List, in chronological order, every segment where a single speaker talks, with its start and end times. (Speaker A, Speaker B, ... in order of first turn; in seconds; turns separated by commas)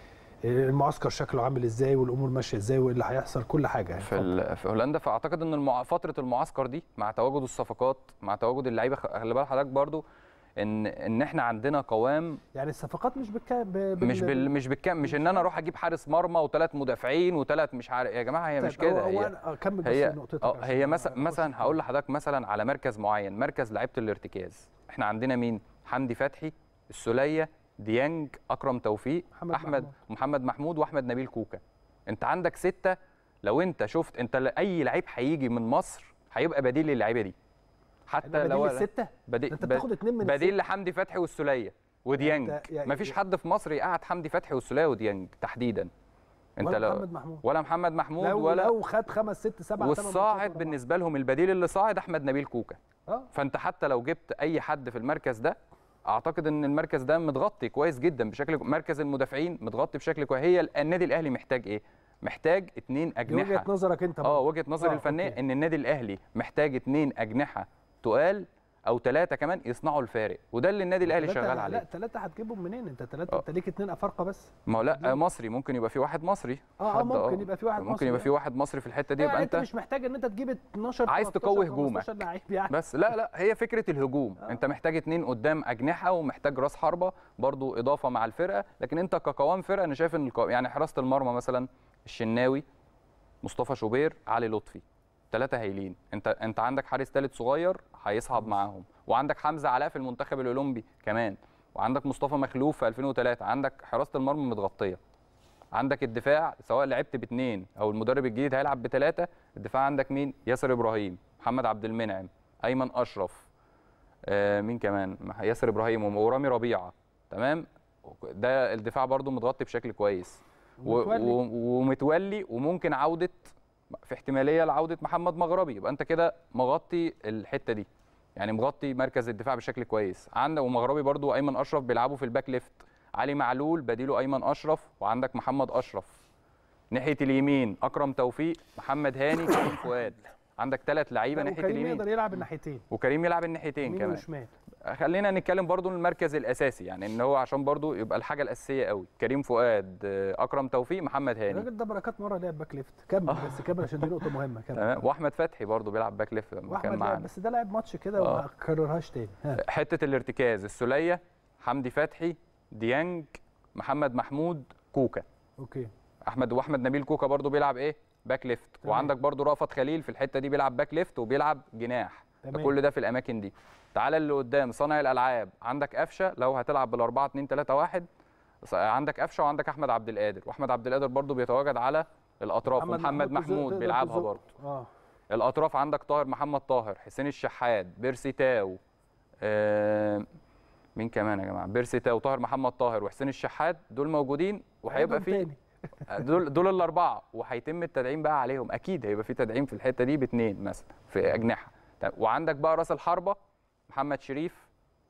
Speaker A: 0.4-4.3, Speaker B: 4.0-10.0, Speaker B: 10.6-12.4, Speaker A: 12.5-14.5, Speaker B: 14.0-19.3, Speaker A: 15.0-15.5, Speaker A: 18.6-21.8, Speaker B: 19.8-37.3, Speaker A: 29.4-29.9, Speaker B: 38.1-45.9, Speaker A: 38.2-40.6, Speaker A: 42.1-43.1, Speaker B: 46.6-48.7, Speaker A: 46.6-47.4, Speaker A: 48.2-50.8, Speaker B: 49.8-52.8, Speaker B: 53.3-55.5, Speaker B: 56.1-63.7, Speaker A: 63.3-65.4, Speaker B: 64.2-71.8, Speaker A: 71.0-75.2, Speaker B: 74.7-79.7, Speaker A: 76.8-78.3, Speaker A: 79.2-82.8, Speaker B: 81.1-92.6, Speaker B: 93.4-105.0, Speaker B: 105.7-113.5, Speaker B: 114.3-136.1, Speaker A: 120.8-121.4, Speaker B: 136.9-142.1, Speaker A: 141.3-142.8, Speaker B: 142.9-144.2, Speaker A: 143.8-144.5, Speaker B: 144.8-151.7, Speaker A: 151.5-155.0, Speaker B: 153.2-157.3, Speaker A: 156.7-159.6, Speaker B: 158.2-158.4, Speaker B: 159.6-165.2, Speaker A: 165.6-165.9, Speaker B: 166.3-178.1, Speaker A: 168.8-169.1, Speaker A: 172.4-172.7, Speaker B: 178.6-184.4, Speaker A: 182.7-184.9, Speaker B: 185.3-188.8, Speaker B: 189.4-190.2, Speaker B: 190.9-195.5, Speaker A: 194.9-196.2, Speaker B: 196.1-203.3, Speaker B: 203.9-204.7